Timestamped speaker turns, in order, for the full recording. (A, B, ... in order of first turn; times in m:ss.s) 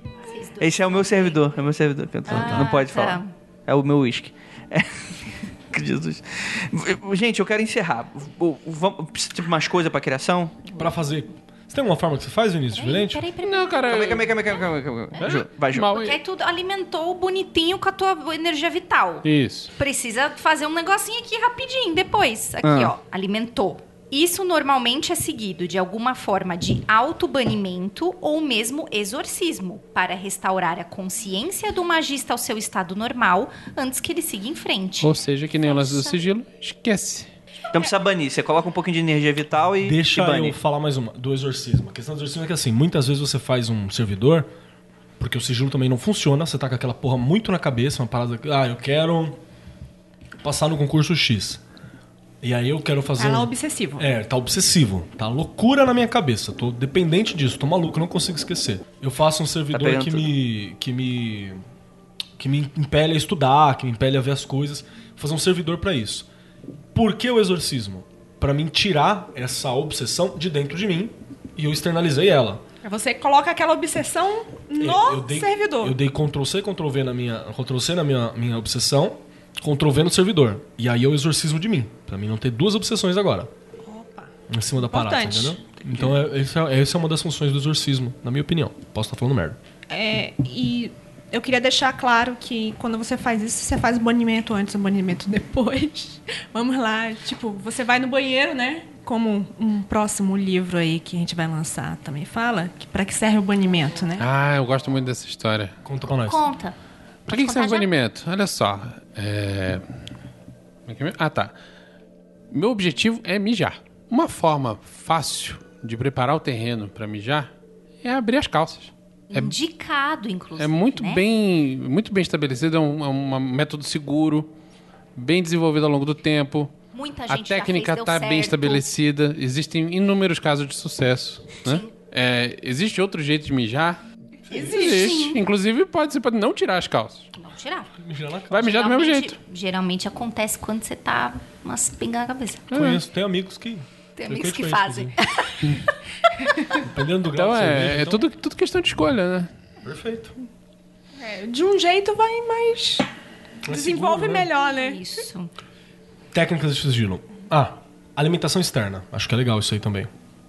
0:00.3-0:01.4 A
0:00.6-0:05.0 B
0:02.3-0:03.3 A
0:02.3-0:02.8 C
0:05.7-0:10.7 B
0:10.8-0:13.2 C
0:12.7-0:13.9 A
0:13.4-0:14.4 D
0:13.9-0:16.0 B
0:15.2-0:15.5 C
0:15.2-0:16.2 D
0:15.9-0:36.2 A
0:19.2-0:19.7 D
0:22.6-0:22.9 B
0:35.0-0:37.3 D
0:37.7-0:40.6 B
0:39.8-0:44.5 C
0:45.2-0:49.4 C
0:50.4-0:51.6 C
0:52.4-1:01.6 C
0:53.2-0:54.1 E
0:59.7-1:00.3 B
1:02.4-1:06.3 C
1:06.9-1:12.6 C
1:12.8-1:16.0 E
1:14.8-1:23.5 C
1:23.8-1:25.6 E
1:24.5-1:29.6 C
1:29.9-1:44.3 E
1:44.2-1:45.7 D
1:45.8-1:46.5 C
1:46.3-1:46.8 A
1:47.3-1:47.9 A
1:47.3-1:49.8 D
1:50.9-1:51.6 D
1:52.5-1:57.5 D
1:58.0-1:59.6 D
1:59.3-2:01.2 A
2:00.6-2:04.5 D
2:05.2-2:06.7 D
2:06.9-2:08.8 A
2:07.3-2:14.0 D
2:11.6-2:11.9 A
2:14.5-2:15.4 A
2:14.5-2:15.2 E
2:14.5-2:17.3 D
2:17.4-2:17.9 A
2:18.0-2:18.7 C
2:18.5-2:19.4 D
2:18.6-2:22.7 A
2:22.7-2:23.0 D
2:22.7-2:25.2 C
2:24.2-2:25.9 A
2:26.8-2:28.3 C
2:27.3-2:29.5 D
2:29.8-2:30.4 C
2:31.2-2:33.1 E
2:33.7-2:34.5 C
2:33.7-2:35.0 E
2:34.6-2:35.5 A
2:36.3-2:40.1 C